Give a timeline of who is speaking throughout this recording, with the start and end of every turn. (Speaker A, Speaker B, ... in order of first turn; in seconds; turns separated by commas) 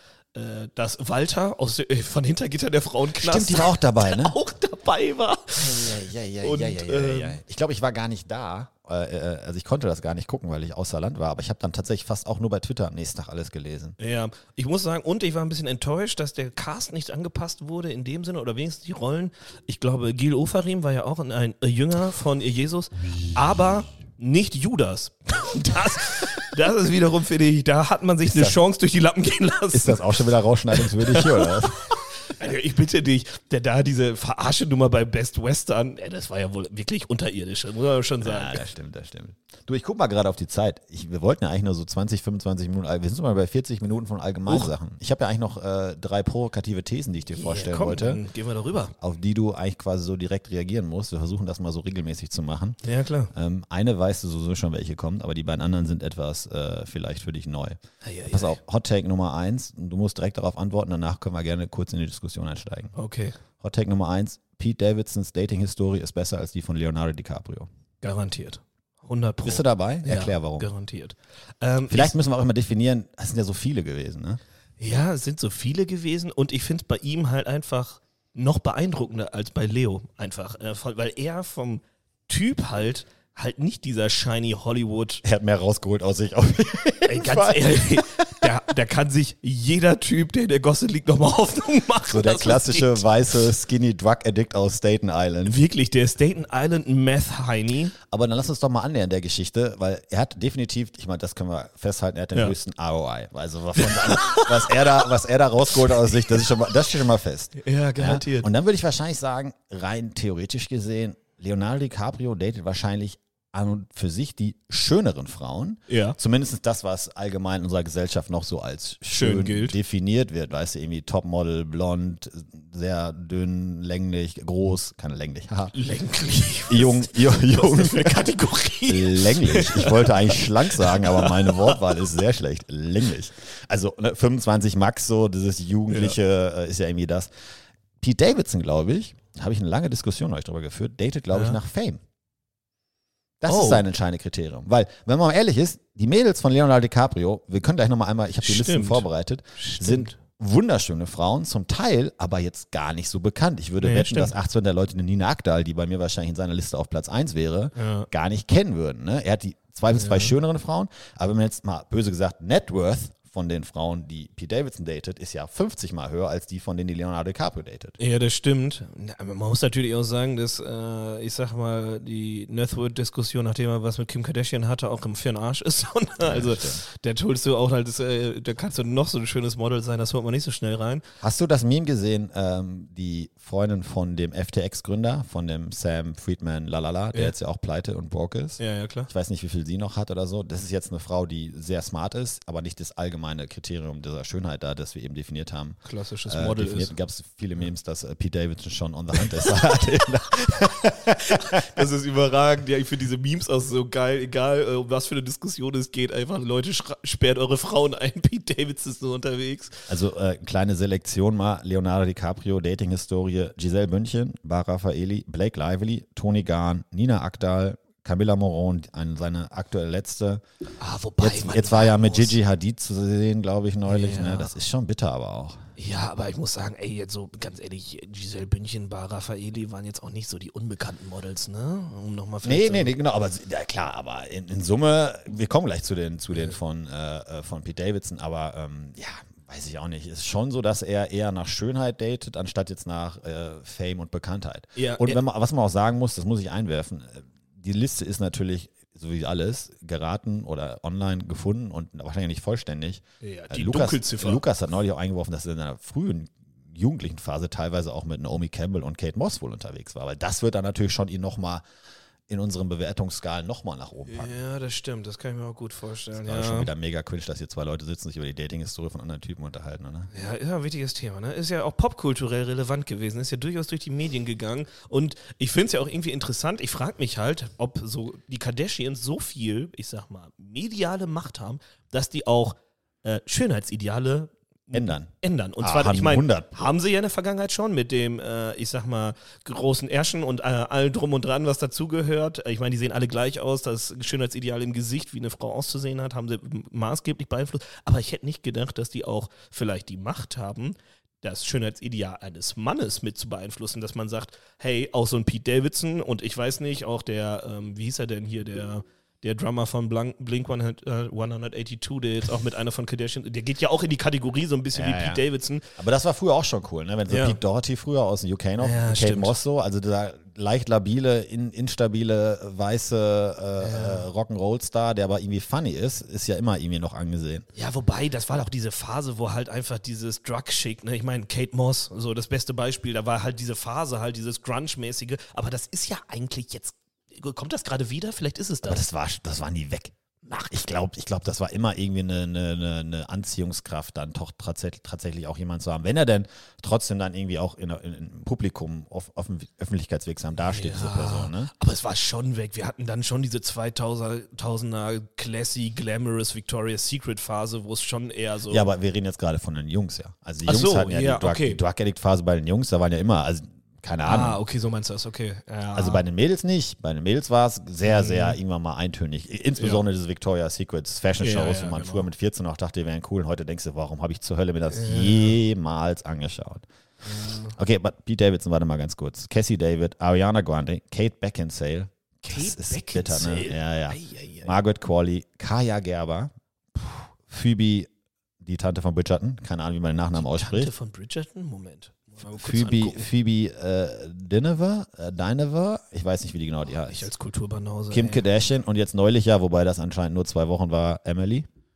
Speaker A: 0.3-7.4, Speaker B: 3.2-4.3, Speaker B: 5.5-13.9, Speaker A: 14.0-30.1, Speaker B: 28.2-28.6, Speaker B: 29.7-31.9, Speaker A: 30.7-38.7, Speaker B: 38.2-48.2, Speaker A: 44.5-44.7, Speaker A: 47.4-48.9, Speaker B: 49.0-52.8, Speaker A: 52.8-53.3, Speaker B: 53.3-57.8, Speaker A: 58.0-58.6, Speaker B: 58.3-62.9, Speaker A: 62.9-63.4, Speaker B: 63.6-67.7, Speaker A: 68.0-72.1, Speaker B: 69.4-70.7, Speaker B: 71.9-74.4, Speaker A: 74.8-85.2, Speaker B: 85.2-88.5, Speaker A: 87.0-93.0, Speaker B: 92.1-95.6, Speaker A: 95.4-97.9, Speaker B: 98.1-125.7, Speaker A: 104.0-104.5, Speaker A: 107.6-108.5, Speaker A: 115.9-116.2, Speaker A: 119.1-119.7, Speaker A: 125.7-131.8, Speaker B: 126.7-128.3, Speaker B: 128.9-137.3, Speaker A: 135.9-136.2, Speaker B: 138.0-142.0, Speaker A: 141.3-141.6, Speaker B: 143.4-168.0, Speaker A: 143.5-143.8, Speaker A: 148.4-150.2, Speaker A: 153.8-154.3, Speaker A: 157.7-158.1, Speaker A: 159.9-160.3, Speaker A: 168.0-181.0, Speaker B: 176.2-176.8, Speaker B: 181.2-201.6, Speaker A: 188.6-189.1, Speaker A: 195.8-196.9, Speaker A: 201.2-209.9, Speaker B: 209.9-220.4, Speaker A: 220.8-222.3, Speaker B: 221.2-225.6, Speaker A: 223.9-224.5, Speaker A: 225.8-232.9, Speaker B: 232.4-261.6, Speaker A: 244.8-245.2, Speaker A: 253.2-254.4, Speaker B: 262.3-264.3, Speaker A: 264.1-266.7, Speaker B: 266.1-270.1, Speaker A: 270.1-315.7, Speaker B: 284.7-286.6, Speaker B: 314.7-315.2, Speaker B: 315.8-327.4, Speaker A: 317.1-317.4, Speaker A: 318.6-319.4, Speaker A: 323.6-324.1, Speaker A: 327.5-338.8, Speaker B: 338.6-339.9, Speaker A: 340.2-340.6, Speaker B: 340.5-351.5, Speaker A: 350.4-358.7, Speaker B: 358.5-364.4, Speaker A: 360.4-361.6, Speaker A: 364.0-366.0, Speaker B: 365.7-376.6, Speaker A: 367.8-368.4, Speaker A: 369.6-369.8, Speaker A: 371.2-372.1, Speaker A: 374.7-375.4, Speaker A: 377.0-377.5, Speaker B: 377.6-387.9, Speaker A: 382.2-384.6, Speaker B: 388.4-390.7, Speaker A: 390.1-393.1, Speaker B: 392.2-397.1, Speaker A: 396.9-398.2, Speaker B: 397.9-401.5